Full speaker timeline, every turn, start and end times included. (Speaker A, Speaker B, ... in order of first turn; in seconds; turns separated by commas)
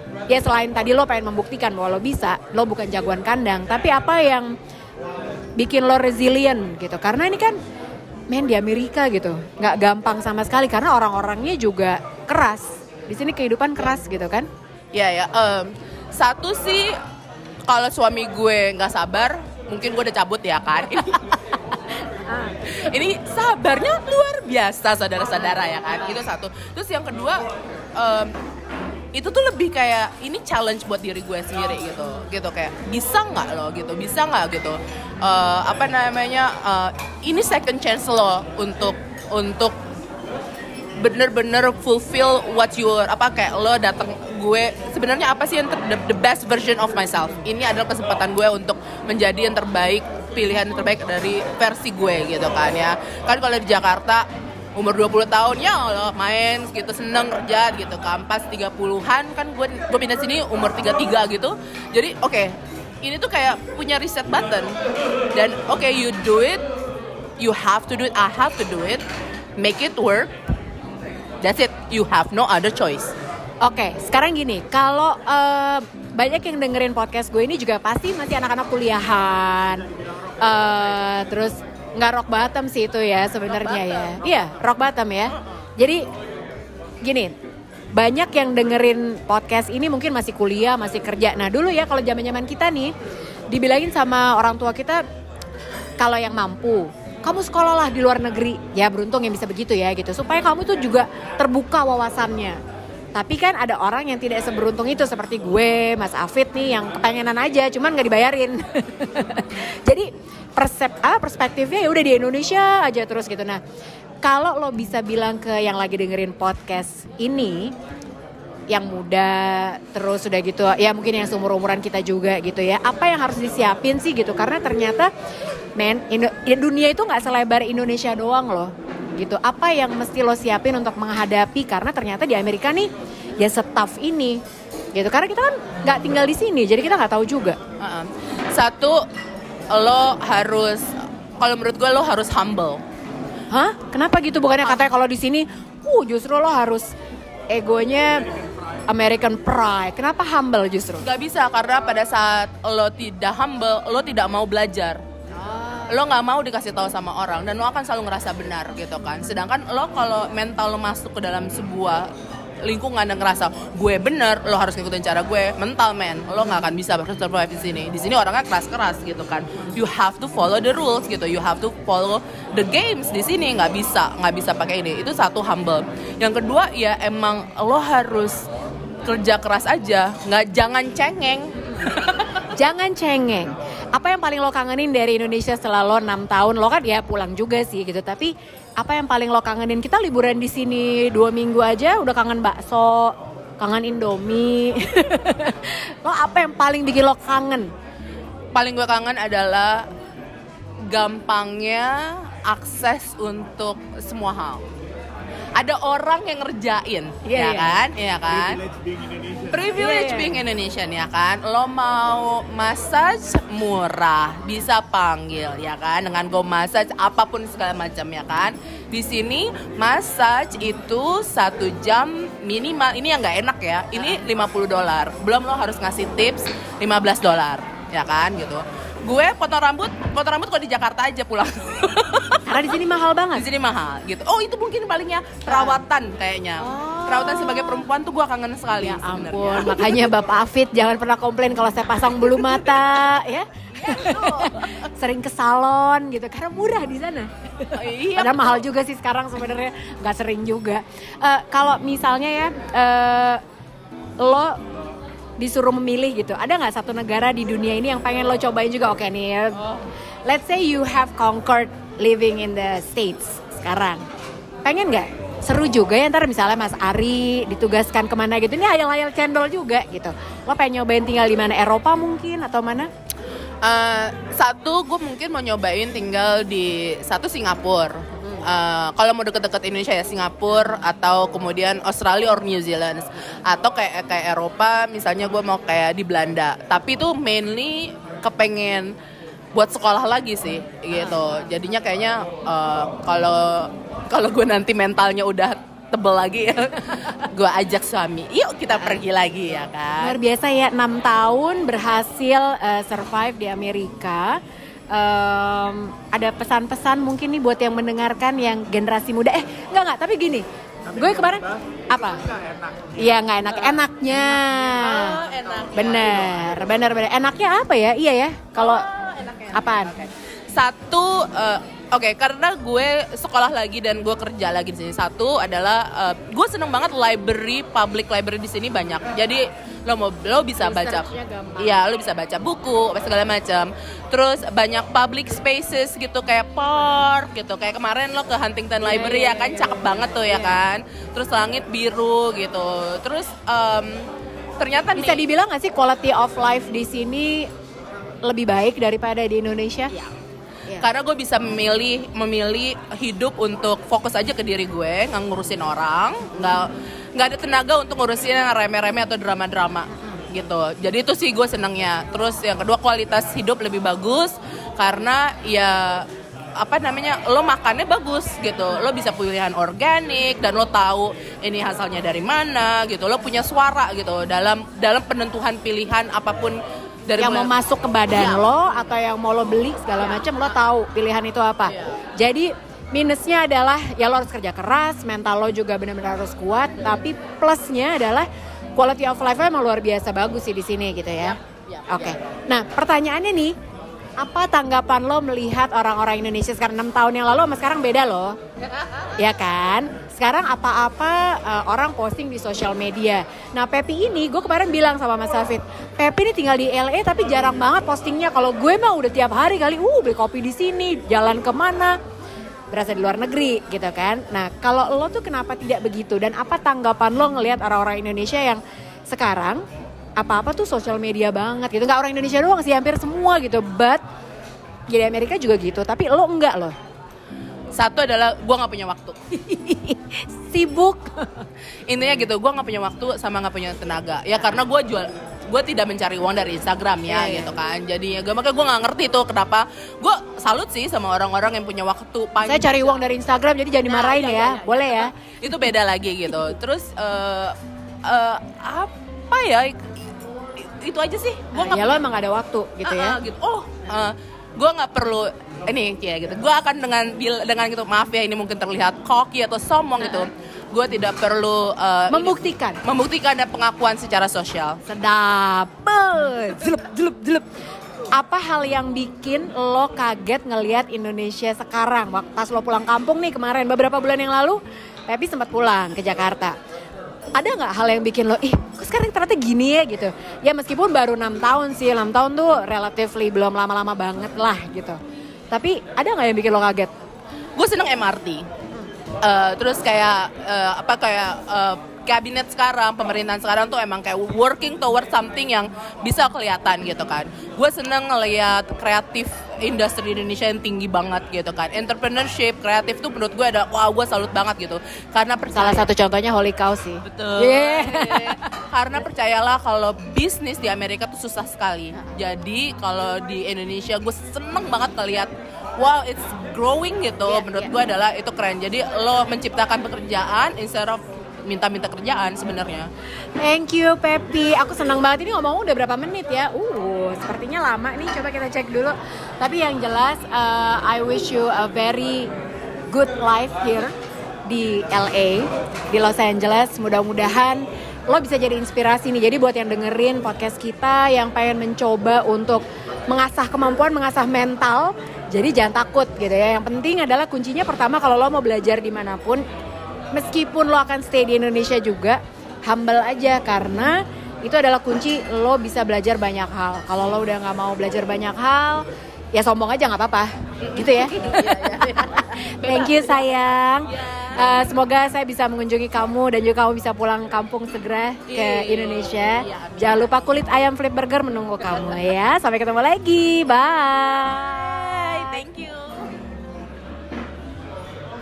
Speaker A: 0.3-4.5, Speaker A: 5.6-7.6, Speaker A: 8.3-14.5, Speaker B: 14.9-16.9, Speaker B: 17.7-21.2, Speaker A: 22.1-22.7, Speaker B: 22.7-27.4, Speaker B: 28.0-28.3, Speaker B: 29.1-39.8, Speaker B: 41.0-64.7, Speaker B: 65.3-66.7, Speaker B: 67.4-69.0, Speaker B: 69.6-70.3, Speaker B: 71.4-73.1, Speaker A: 73.6-79.9, Speaker A: 80.4-86.0, Speaker B: 83.5-84.2, Speaker A: 87.0-87.3, Speaker A: 88.0-92.9, Speaker A: 93.5-95.0, Speaker A: 96.0-102.6, Speaker A: 103.2-113.6, Speaker A: 114.2-117.7, Speaker A: 118.7-125.1, Speaker A: 125.8-134.4, Speaker A: 134.9-137.6, Speaker B: 137.8-139.0, Speaker B: 139.7-142.8, Speaker A: 143.5-146.9, Speaker A: 147.5-148.3, Speaker A: 148.9-151.1, Speaker B: 151.0-155.0, Speaker A: 155.4-155.9, Speaker B: 155.9-162.1, Speaker B: 162.6-178.5, Speaker B: 179.1-182.3, Speaker A: 182.6-197.7, Speaker B: 198.5-199.8, Speaker B: 200.9-204.7, Speaker B: 205.6-208.6, Speaker A: 207.2-207.8, Speaker B: 209.4-232.7, Speaker A: 209.8-210.4, Speaker A: 232.5-233.4, Speaker B: 233.3-240.1, Speaker A: 235.5-235.8, Speaker A: 236.6-237.9, Speaker A: 238.8-253.4, Speaker B: 243.7-244.8, Speaker B: 247.8-248.6, Speaker A: 254.2-254.6, Speaker A: 255.4-264.0, Speaker A: 264.6-272.9, Speaker B: 273.6-289.0, Speaker B: 289.6-300.2, Speaker A: 300.0-304.4, Speaker A: 304.9-312.3, Speaker A: 313.0-315.2, Speaker B: 314.7-316.5, Speaker A: 315.7-318.8, Speaker B: 318.6-345.2, Speaker A: 319.5-319.9, Speaker A: 330.6-331.8, Speaker A: 338.8-340.6, Speaker A: 344.9-347.5, Speaker A: 348.2-349.9, Speaker B: 350.8-377.5, Speaker A: 359.9-360.2, Speaker A: 377.2-393.6, Speaker B: 378.1-378.5, Speaker B: 380.0-380.4, Speaker B: 381.7-381.9, Speaker B: 391.2-392.2, Speaker A: 394.2-398.4, Speaker A: 399.2-412.0, Speaker A: 412.7-419.6, Speaker A: 420.2-424.0, Speaker A: 424.9-426.8, Speaker B: 427.7-429.2, Speaker A: 429.3-431.5, Speaker B: 431.9-443.1, Speaker A: 437.1-437.5, Speaker A: 442.4-445.1, Speaker B: 443.8-449.8, Speaker B: 450.6-452.0, Speaker A: 451.5-453.2, Speaker B: 452.8-464.8, Speaker A: 462.1-462.8, Speaker A: 464.9-467.4, Speaker A: 468.2-476.6, Speaker A: 477.4-485.0, Speaker A: 485.5-486.9, Speaker B: 487.6-488.4, Speaker B: 489.2-505.9, Speaker A: 505.5-508.5, Speaker B: 507.1-522.9, Speaker A: 517.3-517.7, Speaker A: 523.4-532.3, Speaker A: 532.9-533.9, Speaker A: 534.5-549.4, Speaker A: 550.1-575.4, Speaker B: 560.6-564.6, Speaker B: 568.3-570.1, Speaker B: 574.4-576.1